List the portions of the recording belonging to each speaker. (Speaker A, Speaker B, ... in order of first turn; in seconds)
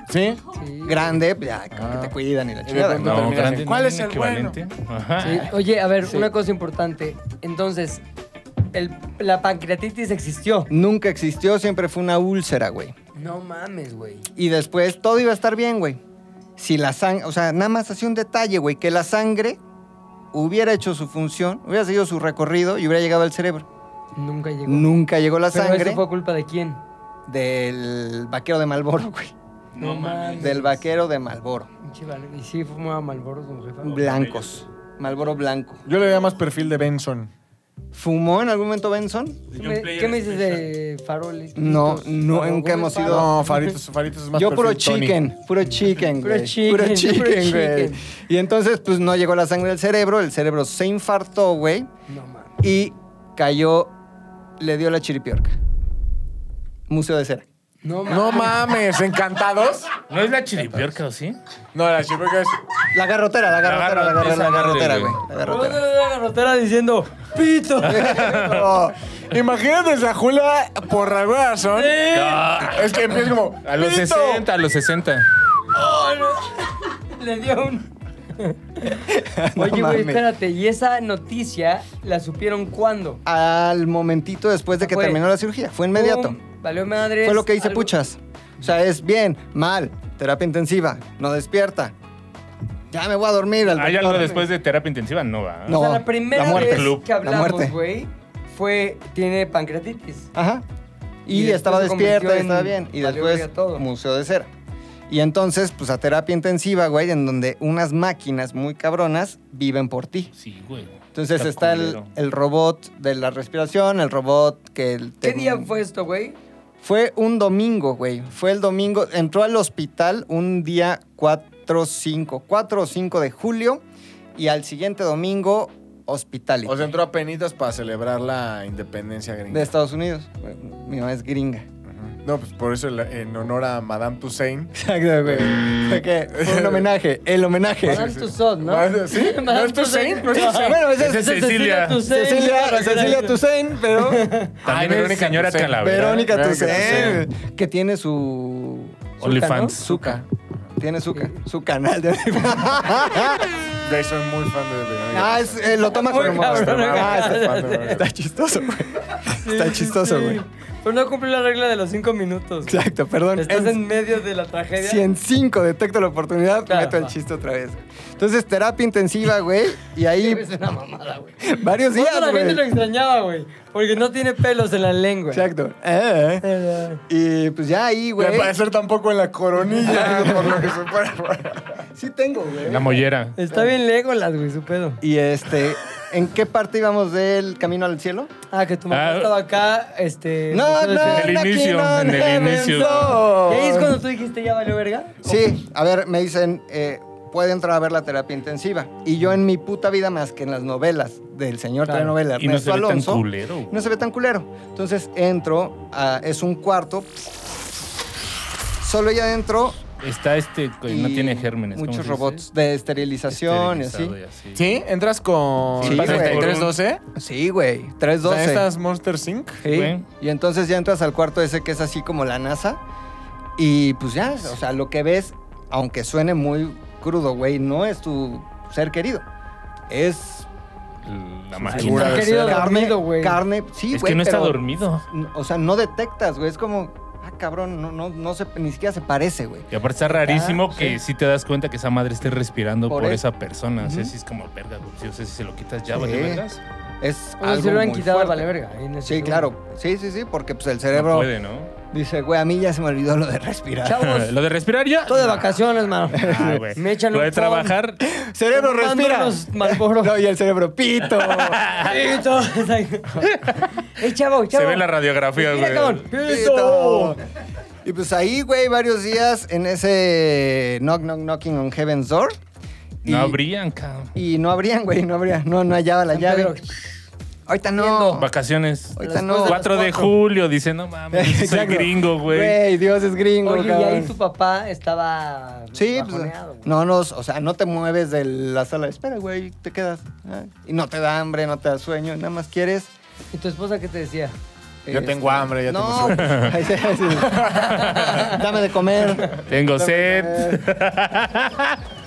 Speaker A: 0.1-0.4, 1.7-2.1, 2.6-4.6, 35.9-37.3, 43.1-45.2, 58.1-60.0, 61.7-62.6, 69.3-72.0, 72.6-74.4, 126.7-129.7, 131.9-136.9, 137.9-140.9, 144.6-147.3, 153.8-158.1, 178.2-181.8, 214.6-217.0, 218.2-219.7, 231.6-232.6, 294.9-296.5, 297.1-297.9
Speaker B: 0.5-1.2, 5.2-8.0, 8.7-10.7, 13.2-14.3, 24.2-24.9, 25.5-26.8, 29.8-30.8, 31.8-34.1, 39.5-43.7, 46.1-48.0, 52.1-52.5, 57.8-58.6, 65.4-68.2, 71.7-72.5, 75.7-79.0, 79.5-83.2, 84.8-85.2, 85.9-87.9, 95.7-100.3, 101.3-103.8, 115.2-116.4, 137.9-143.4, 144.0-144.6, 149.2-149.8, 155.9-158.0, 159.2-162.8, 163.3-165.1, 166.7-167.1, 170.2-175.5, 176.4-177.0, 183.4-185.0, 188.5-191.3, 193.2-195.4, 201.8-202.2, 231.8-233.4, 240.1-241.0, 247.4-249.5, 253.8-254.3, 255.1-257.8, 258.5-260.1, 261.8-263.2, 264.0-267.2, 276.1-276.8, 277.8-278.2, 279.0-280.0, 283.4-286.7, 293.3-294.4, 297.6-298.4
Speaker C: 0.8-3.3, 10.7-12.9, 14.4-16.0, 16.6-19.6, 20.3-23.7, 24.7-26.1, 27.3-29.3, 30.4-31.7, 33.8-35.8, 37.9-39.4, 41.6-43.3, 44.3-51.9, 52.6-53.9, 54.6-55.6, 56.9-57.5, 62.9-65.8, 67.8-69.0, 79.1-80.2, 83.2-86.4, 87.2-91.9, 92.9-94.5, 95.7-97.8, 100.3-100.7, 101.2-104.5, 105.1-110.3, 111.2-115.7, 116.8-123.8, 124.4-126.9, 129.5-131.7, 134.8-138.2, 140.5-141.4, 142.0-144.3, 145.8-149.2, 149.8-150.2, 150.8-153.4, 155.1-160.4, 162.7-163.8, 164.8-170.5, 171.4-172.7, 175.3-176.5, 177.1-178.6, 179.7-180.8, 181.9-183.7, 185.0-188.3, 190.5-194.0, 195.2-207.1, 208.8-209.8, 210.9-214.2, 215.8-216.6, 217.2-218.7, 219.6-222.8, 223.6-229.2, 229.9-230.5, 231.8-239.7, 242.9-243.2, 243.8-244.1, 245.9-246.4, 247.0-248.5, 249.0-251.3, 251.9-254.2, 256.1-256.6, 258.0-261.6, 266.2-267.2, 267.8-272.4, 273.0-273.4, 274.1-276.5, 277.5-278.3, 279.0-280.1, 281.1-284.1, 285.7-292.9, 294.9-300.7
Speaker D: 2.9-5.5, 29.8-30.5, 34.0-34.4, 39.5-40.7, 60.1-61.4, 63.6-65.2, 68.0-68.7, 72.1-75.3, 93.7-95.8, 96.4-97.0, 110.4-112.1, 140.9-142.0, 144.7-147.2, 149.2-150.2, 182.7-183.4, 188.9-189.4, 191.0-193.3, 202.4-203.7, 210.0-212.4, 213.3-214.7, 215.8-216.7, 219.7-220.1, 231.1-232.4, 233.9-235.0, 239.7-246.6, 250.9-251.7, 254.1-255.4, 256.1-258.0, 261.2-262.0, 263.2-263.7, 264.5-266.1, 273.1-274.1, 278.2-282.6, 296.2-296.5, 299.5-301.8